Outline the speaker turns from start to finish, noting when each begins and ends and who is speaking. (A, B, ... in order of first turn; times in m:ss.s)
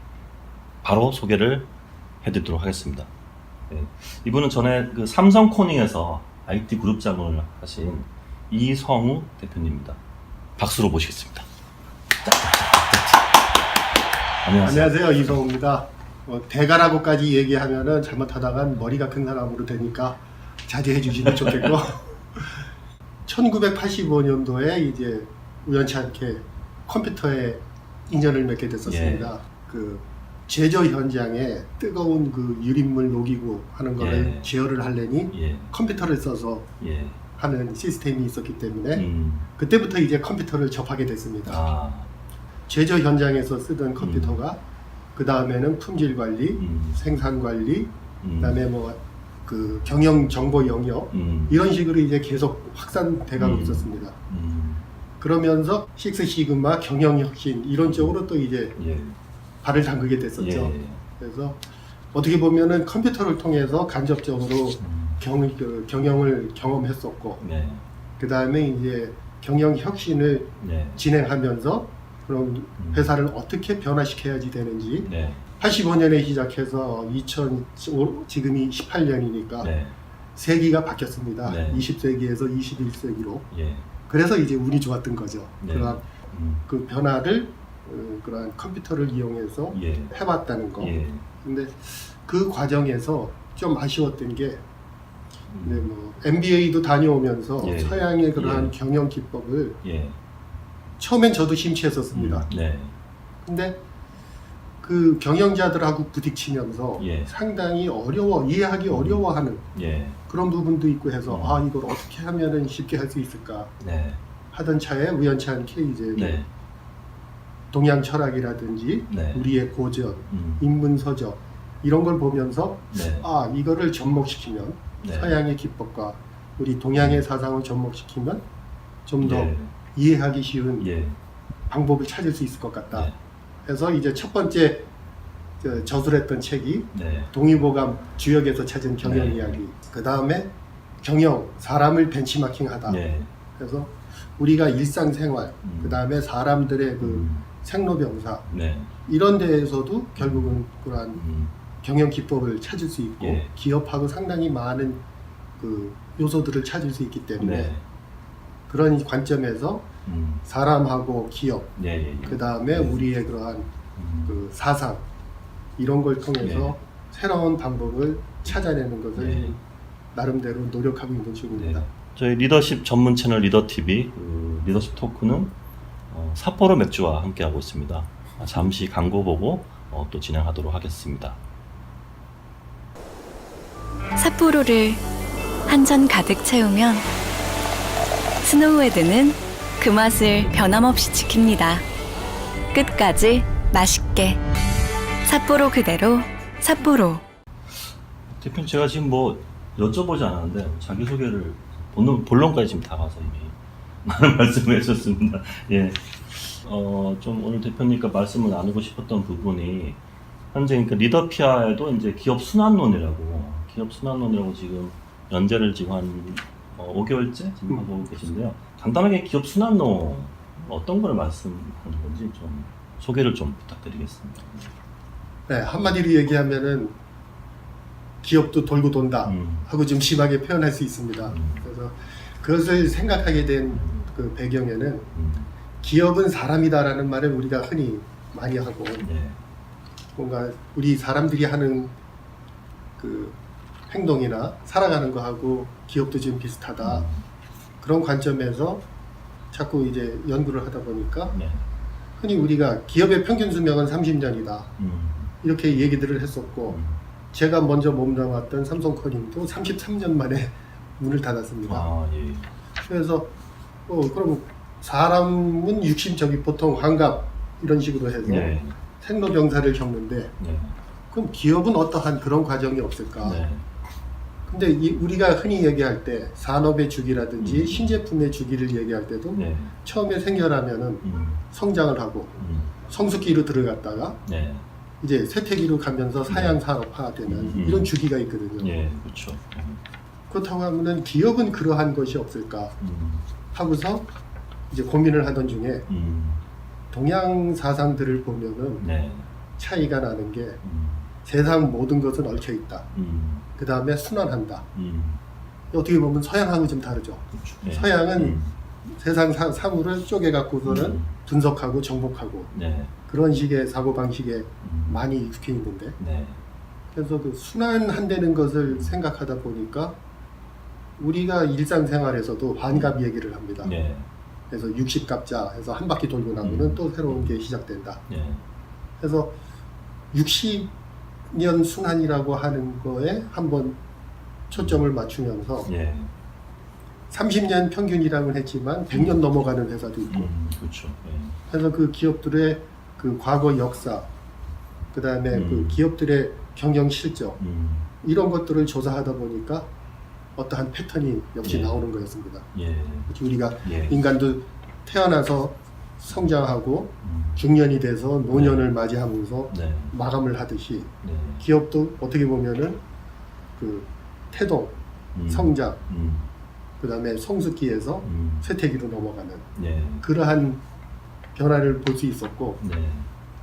0:00.8-0:01.7 A
0:02.2-0:03.1 A
0:03.7-0:10.0 A
0:10.6-0:11.5 A
0:12.2-0:13.3 A
0:14.4-0:15.3 A
0:14.6-0:22.6 B
0:21.3-0:21.7 A
0:23.2-0:36.7 B
0:28.8-0:29.3 A
0:34.0-0:34.5 A
0:35.3-0:35.7 A
0:36.8-0:37.2 A
0:37.4-0:41.6 B
0:38.9-0:39.5 A
0:41.4-0:42.1 A
0:42.7-0:44.6 B
0:44.0-0:44.4 A
0:45.1-0:54.2 B
0:46.6-0:47.0 A
0:48.2-0:48.7 A
0:51.1-0:51.6 A
0:53.4-0:54.8 A
0:55.2-0:58.8 B
0:57.8-0:58.2 A
0:58.8-0:59.2 A
0:59.6-1:01.6 B
1:00.4-1:01.0 A
1:02.1-1:07.4 B
1:04.8-1:05.2 A
1:07.4-1:07.8 A
1:08.2-1:15.1 B
1:10.6-1:11.0 A
1:12.8-1:13.1 A
1:15.0-1:15.4 A
1:15.6-1:19.7 B
1:19.6-1:20.0 A
1:20.4-1:23.5 B
1:21.4-1:21.8 A
1:23.5-1:23.9 A
1:24.1-1:26.0 B
1:25.6-1:26.6 A
1:26.6-1:34.6 B
1:29.7-1:30.1 A
1:30.8-1:31.2 A
1:35.5-1:35.9 A
1:35.6-1:39.8 B
1:37.6-1:38.7 A
1:39.8-1:40.2 A
1:41.0-1:42.5 B
1:42.1-1:42.9 A
1:43.4-1:43.8 B
1:44.8-1:49.6 B
1:47.0-1:47.3 A
1:48.9-1:50.2 A
1:50.3-1:53.7 B
1:51.3-1:51.6 A
1:53.8-1:54.2 A
1:54.5-1:56.4 B
1:56.1-1:56.5 A
1:57.7-2:08.4 B
1:59.1-1:59.5 A
2:00.3-2:00.6 A
2:02.9-2:03.3 A
2:05.0-2:05.4 A
2:06.9-2:07.2 A
2:09.1-2:10.9 B
2:09.2-2:09.7 A
2:10.8-2:11.2 A
2:11.7-2:13.1 B
2:13.6-2:14.9 B
2:15.6-2:23.0 B
2:16.9-2:17.3 A
2:19.0-2:19.6 A
2:22.8-2:23.3 A
2:23.6-2:28.5 B
2:25.6-2:26.0 A
2:27.0-2:27.4 A
2:28.5-2:28.9 A
2:29.0-2:31.2 B
2:30.2-2:30.6 A
2:31.1-2:31.5 A
2:31.8-2:35.0 B
2:33.2-2:33.5 A
2:35.6-2:37.7 B
2:37.4-2:37.8 A
2:38.7-2:39.9 B
2:40.0-2:40.4 A
2:40.4-2:41.7 B
2:41.8-2:43.0 A
2:42.2-2:43.7 B
2:43.9-2:44.4 A
2:44.3-2:45.0 B
2:45.8-2:49.6 B
2:46.4-2:46.7 A
2:49.1-2:49.6 A
2:50.1-2:51.8 B
2:51.5-2:55.5 A
2:56.1-3:01.4 A
3:04.2-3:05.0 C
3:05.7-3:07.1 C
3:08.4-3:11.8 C
3:12.7-3:14.4 C
3:15.2-3:17.2 C
3:17.7-3:30.0 A
3:30.5-3:44.7 A
3:45.5-3:46.9 B
3:48.2-3:55.1 B
3:49.2-3:49.7 A
3:51.3-3:51.6 A
3:53.7-3:54.0 A
3:55.1-3:55.5 A
3:55.8-3:59.0 B
3:59.0-3:59.4 A
4:00.2-4:01.9 B
4:03.0-4:03.4 B
4:03.9-4:07.0 B
4:06.8-4:07.2 A
4:07.8-4:08.8 B
4:09.5-4:11.4 B
4:11.3-4:11.6 A
4:12.2-4:14.7 B
4:14.8-4:15.3 A
4:15.4-4:16.8 B
4:16.7-4:17.0 A
4:17.3-4:21.9 B
4:21.7-4:22.5 A
4:22.8-4:23.3 B
4:23.9-4:30.3 B
4:28.2-4:28.8 A
4:30.4-4:30.7 A
4:31.1-4:33.4 B
4:33.2-4:33.6 A
4:34.5-4:44.2 B
4:37.4-4:38.0 A
4:39.3-4:39.7 A
4:41.0-4:41.4 A
4:42.4-4:42.7 A
4:44.2-4:44.6 A
4:45.0-4:48.7 B
4:46.3-4:46.6 A
4:47.2-4:47.9 A
4:48.6-4:49.8 A
4:50.3-4:52.8 B
4:52.8-4:53.2 A
4:53.5-4:54.1 B
4:54.7-4:55.8 B
4:55.9-4:56.4 A
4:56.9-4:58.8 B
4:58.8-4:59.3 A
4:59.6-5:00.6 B
5:00.6-5:01.1 A
5:01.2-5:02.9 B
5:02.9-5:03.4 A
5:03.6-5:04.7 B
5:04.7-5:05.2 A
5:05.7-5:12.5 B
5:07.3-5:08.5 A
5:10.6-5:11.1 A
5:12.5-5:12.9 A
5:13.1-5:16.0 B
5:14.6-5:15.0 A
5:16.0-5:16.4 A
5:16.9-5:20.0 B
5:18.7-5:19.0 A
5:21.0-5:23.7 B
5:23.6-5:24.1 A
5:24.5-5:28.0 B
5:26.4-5:27.3 A
5:28.1-5:28.4 A
5:29.0-5:29.3 B
5:30.1-5:30.7 B
5:31.3-5:33.8 B
5:34.5-5:35.7 B
5:34.5-5:34.8 A
5:35.6-5:36.1 A
5:37.1-5:40.3 B
5:38.9-5:39.2 A
5:40.1-5:41.4 A
5:41.5-5:44.1 B
5:44.9-5:47.4 B
5:45.3-5:45.8 A
5:47.4-5:47.9 A
5:48.0-5:49.7 B
5:50.4-5:52.5 B
5:51.4-5:51.9 A
5:52.5-5:53.1 A
5:53.1-6:02.8 B
5:53.6-5:54.0 A
5:57.0-5:57.4 A
5:58.3-5:58.7 A
5:59.5-5:59.9 A
6:01.0-6:01.4 A
6:03.6-6:04.8 B
6:05.1-6:06.3 A
6:05.3-6:05.8 B
6:06.8-6:09.5 B
6:08.0-6:08.5 A
6:09.6-6:10.0 A
6:10.0-6:10.6 B
6:11.3-6:12.6 B
6:12.6-6:13.1 A